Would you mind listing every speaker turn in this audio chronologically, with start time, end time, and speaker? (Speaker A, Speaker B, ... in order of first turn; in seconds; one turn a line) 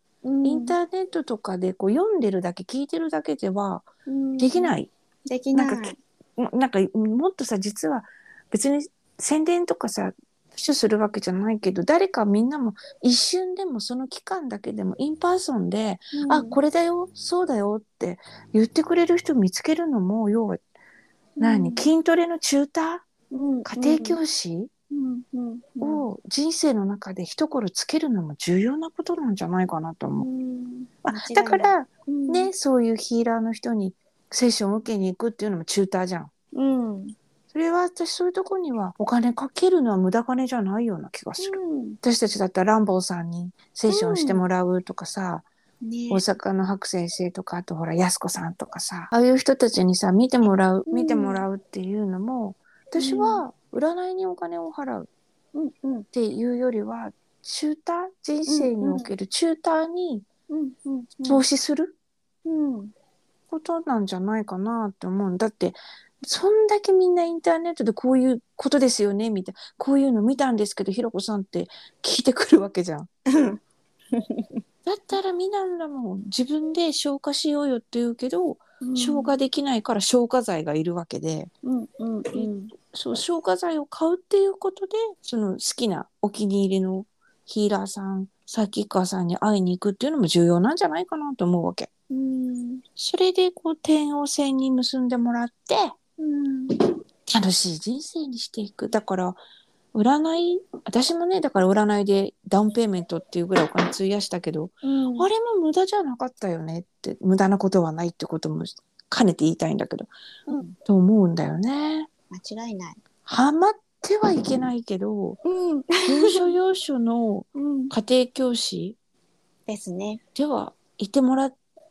Speaker A: 0.2-0.8
Speaker B: 0.4-3.9
Speaker A: 4.1-6.0
Speaker B: 4.4-4.9
Speaker B: 5.5-20.6
Speaker A: 16.1-16.6
Speaker A: 21.4-21.9
Speaker B: 21.4-23.1
Speaker A: 23.3-24.2
Speaker B: 23.6-24.7
Speaker A: 24.9-26.0
Speaker B: 25.8-30.2
Speaker A: 30.2-32.5
Speaker B: 31.0-36.3
Speaker A: 36.5-37.1
Speaker B: 37.5-45.5
Speaker A: 41.4-42.0
Speaker A: 43.9-44.4
Speaker A: 45.8-46.2
Speaker B: 46.1-55.1
Speaker A: 50.9-51.4
Speaker A: 53.0-53.4
Speaker A: 55.5-56.1
Speaker B: 56.1-60.2
Speaker A: 58.5-59.1
Speaker A: 60.5-61.4
Speaker B: 61.2-62.0
Speaker A: 62.4-62.9
Speaker B: 63.5-73.1
Speaker A: 73.3-73.6
Speaker A: 74.1-74.5
Speaker B: 74.8-81.5
Speaker A: 78.8-79.3
Speaker A: 81.6-82.7
Speaker B: 82.3-91.9
Speaker A: 92.1-92.8
Speaker B: 93.0-96.0
Speaker A: 96.2-96.8
Speaker B: 97.2-99.4
Speaker B: 99.9-110.1
Speaker A: 104.8-105.3
Speaker A: 110.5-110.8
Speaker B: 110.8-112.1
Speaker A: 112.3-113.0
Speaker B: 113.2-115.4
Speaker A: 115.4-116.5
Speaker B: 116.0-119.0
Speaker A: 117.5-117.9
Speaker A: 119.7-120.2
Speaker B: 120.3-121.5